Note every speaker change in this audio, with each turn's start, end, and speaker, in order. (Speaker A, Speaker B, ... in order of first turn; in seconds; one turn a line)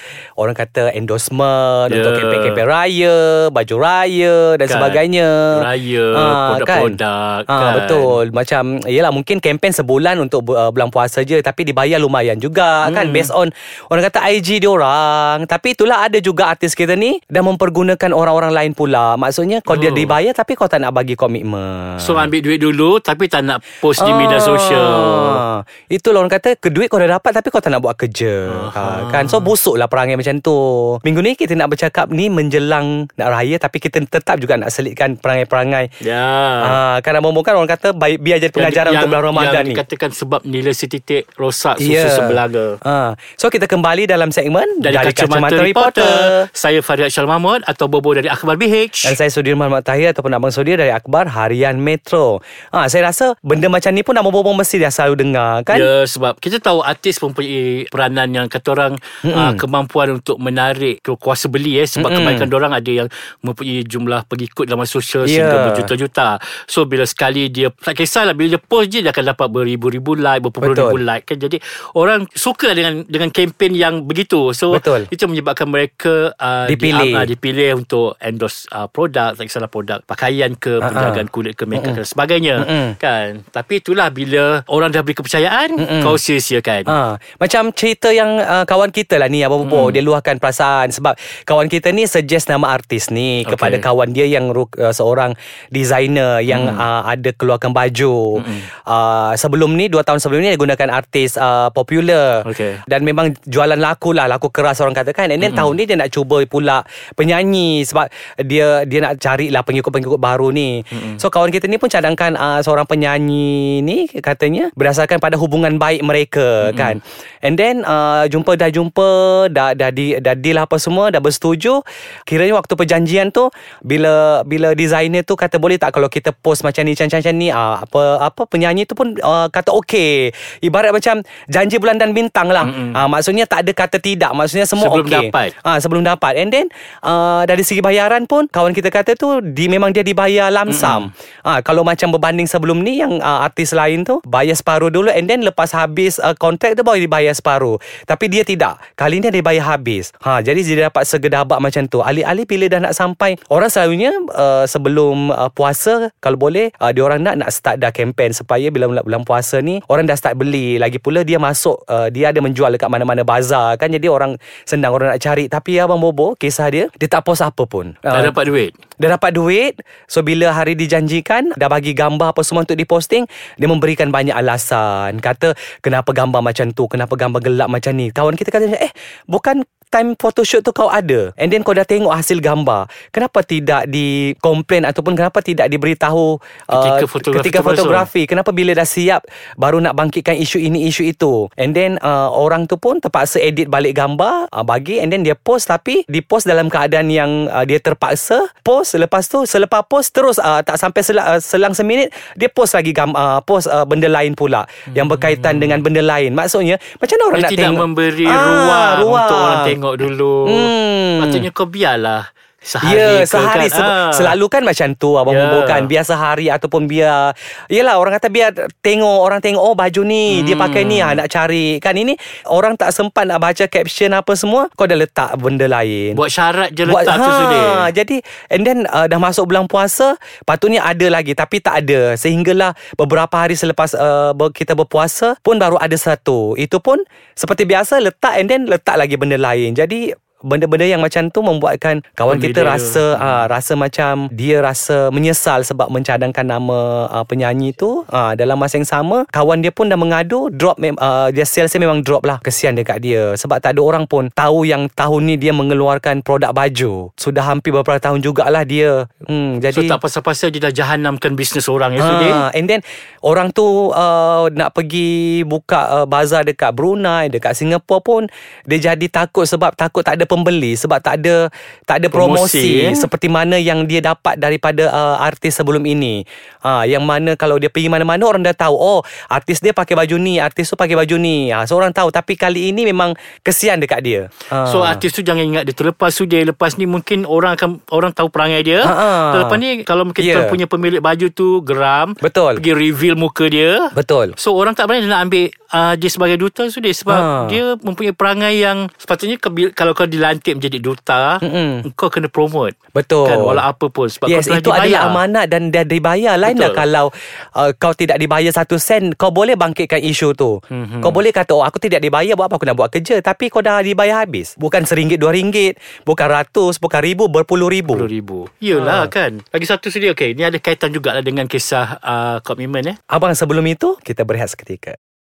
Speaker A: 0.4-7.0
Speaker B: 1.9-2.6
Speaker B: 4.7-5.0
Speaker B: 5.5-8.2
Speaker A: 7.5-22.3
Speaker B: 12.8-13.3
Speaker B: 19.7-20.1
Speaker B: 22.0-25.4
Speaker A: 24.0-35.9
Speaker B: 28.5-29.5
Speaker B: 36.0-36.8
Speaker A: 36.6-39.8
Speaker B: 38.5-42.8
Speaker A: 41.8-46.5
Speaker B: 44.8-49.2
Speaker A: 49.0-55.9
Speaker B: 55.7-86.9
Speaker A: 59.2-59.6
Speaker A: 62.0-62.5
Speaker A: 65.2-65.9
Speaker A: 70.6-71.0
Speaker A: 74.7-75.1
Speaker A: 76.7-77.3
Speaker A: 80.8-82.0
Speaker A: 82.6-82.9
Speaker A: 85.8-86.2
Speaker A: 86.9-168.3
Speaker B: 89.6-90.0
Speaker B: 93.4-93.8
Speaker B: 96.5-96.8
Speaker B: 98.3-98.7
Speaker B: 102.4-102.8
Speaker B: 105.4-105.7
Speaker B: 110.9-111.2
Speaker B: 116.6-117.0
Speaker B: 132.6-133.0
Speaker B: 134.8-135.5
Speaker B: 140.7-141.1
Speaker B: 168.1-168.8
Speaker A: 169.0-209.7
Speaker B: 186.7-188.1
Speaker B: 204.9-205.8
Speaker B: 207.3-214.3
Speaker A: 210.4-211.4
Speaker A: 212.8-226.2
Speaker B: 215.3-215.9
Speaker B: 220.3-221.2
Speaker B: 226.1-227.9
Speaker A: 226.8-260.0
Speaker B: 242.3-243.4
Speaker B: 259.7-262.4
Speaker A: 262.0-285.0
Speaker B: 272.1-273.1
Speaker B: 284.6-305.2
Speaker A: 288.8-289.6
Speaker A: 290.2-290.6
Speaker A: 292.2-292.6
Speaker A: 293.9-294.3
Speaker A: 297.1-297.6
Speaker A: 301.4-301.8
Speaker A: 302.9-303.6
Speaker A: 304.2-318.1
Speaker B: 306.4-306.8
Speaker B: 310.7-311.2
Speaker B: 317.9-323.0
Speaker A: 318.8-319.1
Speaker A: 323.1-324.9